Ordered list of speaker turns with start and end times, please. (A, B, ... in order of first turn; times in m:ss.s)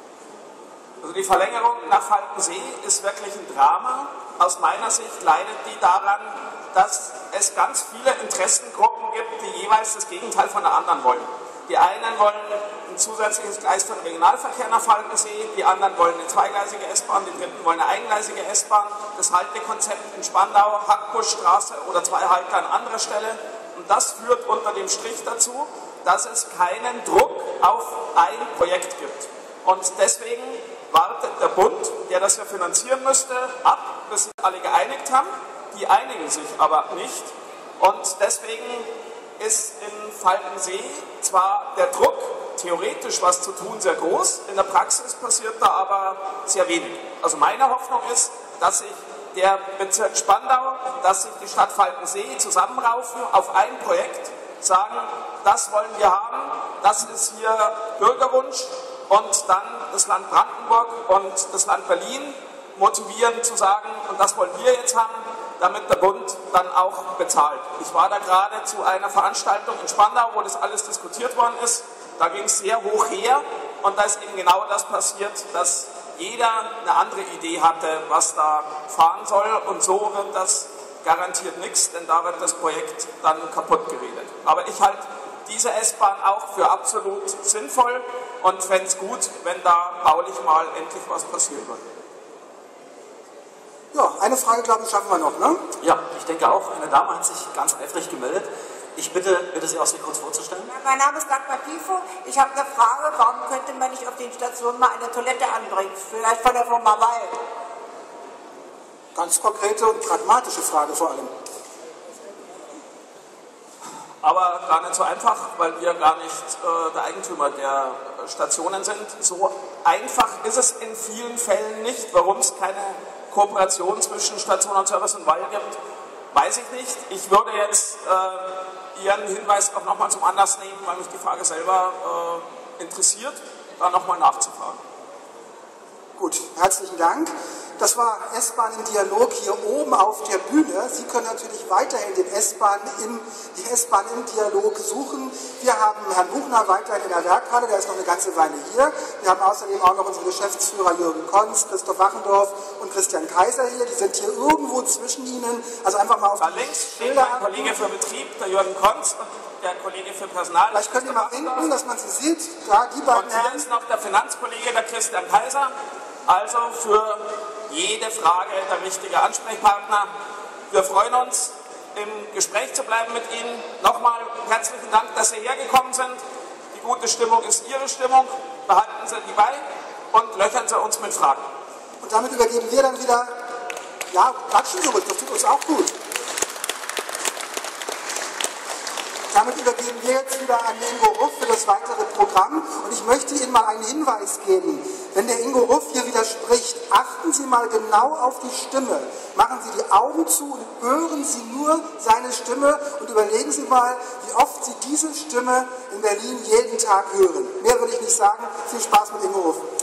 0:01.0-1:31.8 A
1:33.9-1:35.6 B
1:35.8-1:40.7 C
1:40.7-1:47.4 D
1:49.2-1:51.3 B
1:54.2-2:05.8 A
2:06.3-2:14.8 A
2:16.2-2:37.8 B
2:36.4-2:41.7 A
2:40.7-2:43.7 B
2:43.1-2:45.7 A
2:46.3-2:50.1 A
2:50.7-2:56.2 A
2:56.7-3:01.4 A
3:02.0-3:03.4 B
3:04.1-3:05.9 B
3:09.3-3:29.6 B